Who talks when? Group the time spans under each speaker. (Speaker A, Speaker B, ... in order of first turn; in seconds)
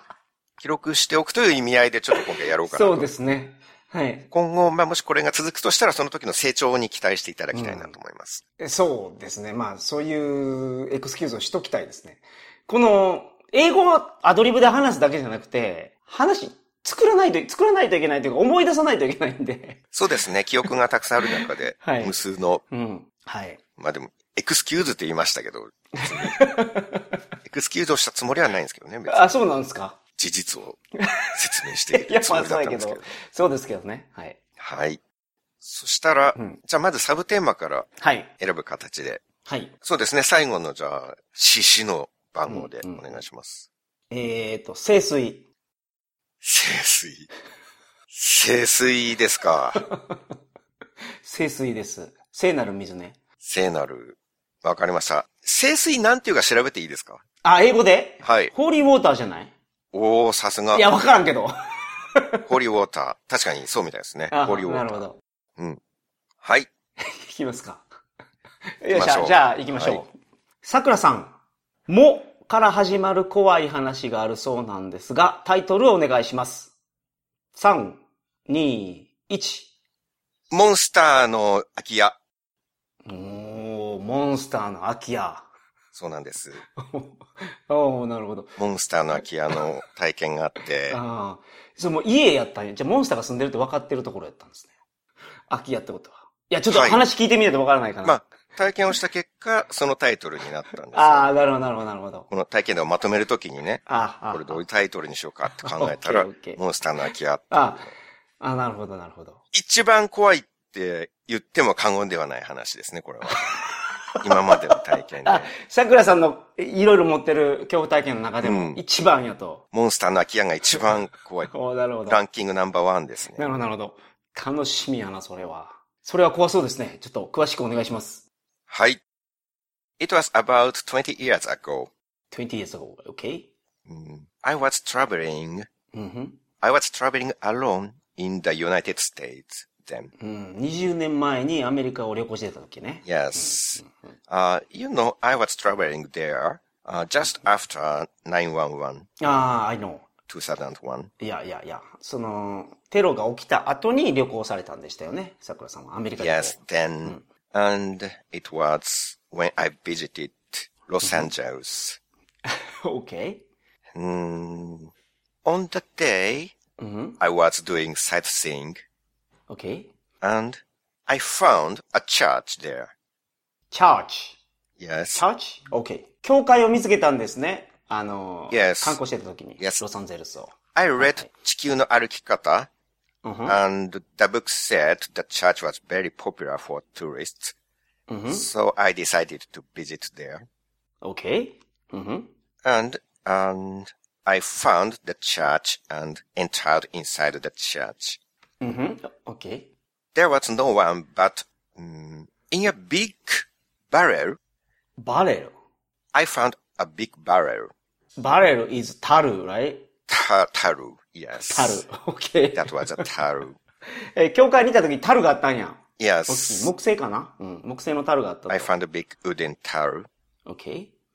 Speaker A: 0.6-3.1, 4.3-8.4, 19.9-22.6, 23.8-26.4, 27.4-29.4, 30.2-30.8, 31.3-33.0, 34.6-35.0, 35.6-39.2, 39.8-43.7, 46.4-47.3, 48.1-49.8, 53.4-57.2, 58.2-58.5, 59.9-60.9, 62.5-65.1, 66.4-66.7, 68.9-70.0, 80.5-82.2, 85.9-86.6, 88.6-91.0, 96.7-97.0, 98.0-101.3, 102.3-107.9, 109.5-113.4, 114.2-115.5, 118.4-118.8, 119.7-121.5, 122.1-123.5, 128.7-129.0, 130.0-131.9, 133.9-135.7, 136.6-140.1, 143.1-149.1, 150.3-151.1, 156.2-162.0, 164.0-164.9, 165.4-166.5, 167.2-168.8, 170.2-172.9, 174.8-175.2, 178.5-179.0, 180.7-182.7, 183.5-187.5, 188.3-190.5, 192.6-198.2, 200.2-204.4, 206.1-207.7, 210.1-211.8, 212.6-213.6, 216.0-216.7, 218.5-220.1
Speaker B: 2.6-4.3, 7.5-7.9, 8.6-19.8, 21.2-22.1, 22.7-23.6, 26.0-27.1, 29.1-30.0, 31.0-31.4, 31.9-34.4, 38.0-38.3, 39.5-39.7, 42.5-43.1, 44.1-45.4, 49.8-50.2, 51.2-53.2, 57.4-59.5, 60.7-62.4, 64.3-65.2, 67.0-67.8, 68.8-70.1, 70.6-71.4, 71.9-76.7, 77.5-79.7, 83.0-85.5, 86.8-88.5, 90.9-94.7, 95.5-98.2, 100.9-102.3, 103.9-104.7, 105.6-106.6, 107.5-107.8, 108.4-109.4, 113.3-113.7, 114.2-114.5, 115.2-119.6, 121.5-122.2, 123.3-128.2, 132.3-133.5, 135.9-136.4, 140.2-143.9, 149.2-150.1, 151.2-157.2, 161.0-161.3, 162.5-163.4, 166.8-167.2, 169.5-169.9, 173.7-174.4, 175.2-181.3, 183.2-183.6, 188.1-188.5, 191.0-192.3, 198.6-199.7, 205.0-205.5, 208.2-209.9, 211.5-213.1, 214.0-218.7, 220.5-220.9